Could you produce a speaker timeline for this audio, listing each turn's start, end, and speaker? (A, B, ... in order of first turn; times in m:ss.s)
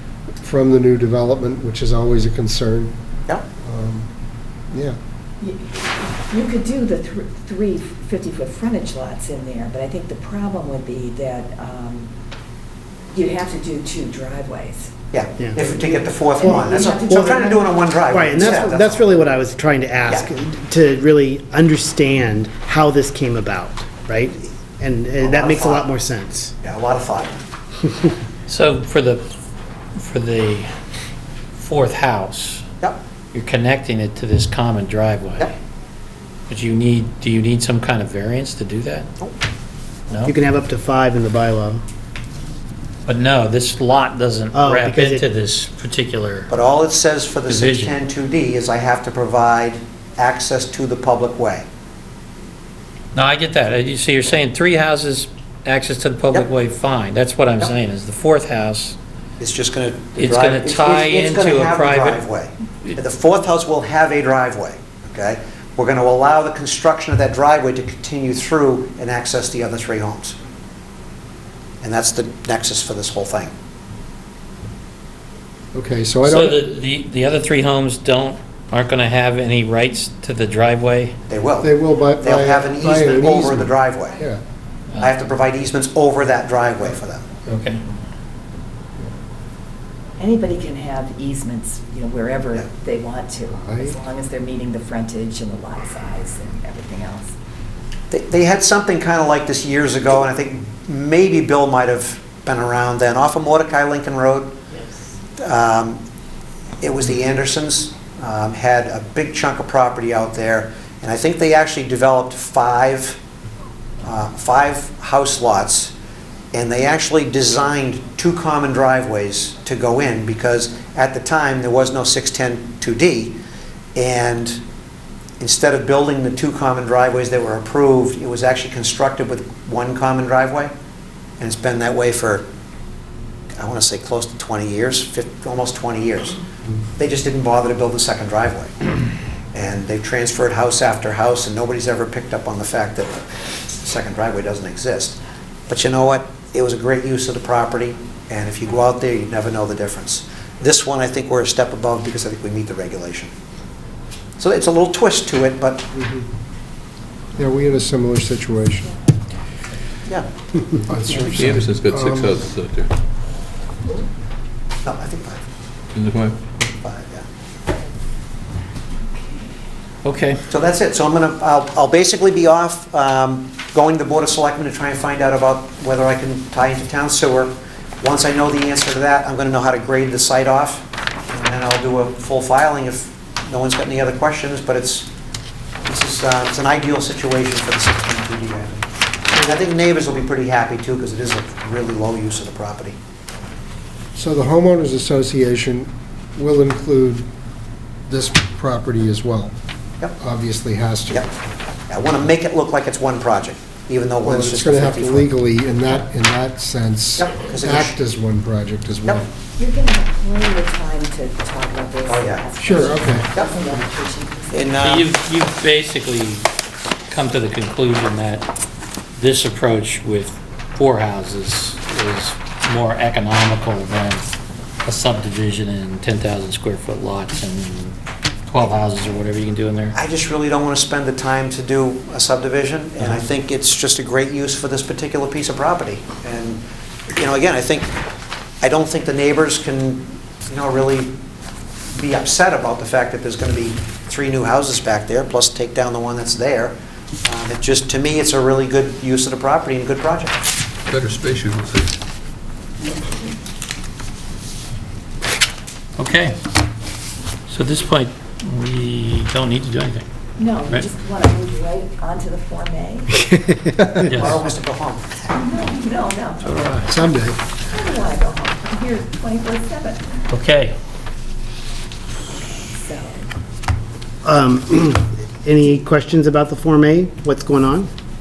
0:00.4-0:02.9 A
0:03.6-0:04.1 A
0:05.4-0:12.1 B
0:13.1-0:14.9 B
0:15.1-0:19.1 C
0:15.6-0:18.6 B
0:18.1-0:26.5 D
0:25.2-0:25.9 C
0:26.6-0:27.4 C
0:28.5-0:29.2 E
0:30.0-0:30.7 E
0:31.6-0:32.6 E
0:33.3-0:35.5 E
0:36.5-0:39.1 E
0:40.3-0:41.8 D
0:43.1-0:46.5 E
0:44.5-0:45.3 D
0:46.5-0:51.7 C
0:47.5-0:48.0 E
0:53.1-0:59.0 E
0:59.4-1:10.4 C
1:00.2-1:02.2 E
1:11.8-1:13.5 C
1:15.7-1:16.7 A
1:16.2-1:21.2 E
1:21.3-1:24.2 C
1:21.6-1:24.4 A
1:25.0-1:27.3 C
1:27.5-1:27.8 E
1:30.2-1:37.3 B
1:33.5-1:34.0 A
1:38.1-1:44.6 C
1:45.4-1:46.0 C
1:46.8-1:53.2 C
1:54.0-1:55.9 C
1:56.5-2:03.4 C
2:04.0-2:04.6 C
2:05.4-2:10.7 C
2:11.4-2:12.5 C
2:13.6-2:16.4 C
2:17.0-2:18.7 C
2:19.5-2:33.3 C
2:34.4-2:35.9 C
2:35.9-2:36.3 A
2:37.4-2:39.0 A
2:40.7-2:42.4 A
2:41.2-2:42.9 F
2:44.8-2:45.4 C
2:45.9-2:46.4 F
2:46.8-2:47.3 C
2:50.0-2:50.4 E
2:50.5-3:05.1 C
3:05.8-3:13.0 C
3:09.4-3:09.7 A
3:14.2-3:17.3 A
3:18.1-3:19.5 A
3:20.2-3:21.3 A
3:21.9-3:25.3 C
3:24.2-3:29.3 A
3:27.2-3:28.0 C
3:29.6-3:34.8 B
3:32.1-3:33.6 C
3:32.6-3:33.3 A
3:34.5-3:35.1 C
3:34.8-3:36.5 E
3:37.1-3:38.5 E
3:39.2-3:44.3 E
3:44.8-3:50.0 E
3:49.9-3:56.6 C
3:53.0-3:53.2 E
3:57.2-3:57.9 C
3:58.6-4:01.2 C
4:01.9-4:10.5 C
4:10.9-4:11.9 F
4:12.9-4:13.2 B
4:16.0-4:16.4 E
4:17.5-4:20.0 E
4:20.4-4:23.4 B
4:23.3-4:24.0 D
4:24.0-4:25.2 C
4:24.1-4:24.4 E
4:25.3-4:27.1 B
4:26.4-4:27.0 E
4:26.9-4:27.4 A
4:27.6-4:30.2 B
4:30.3-4:30.8 E
4:32.3-4:33.3 B
4:34.2-4:37.9 D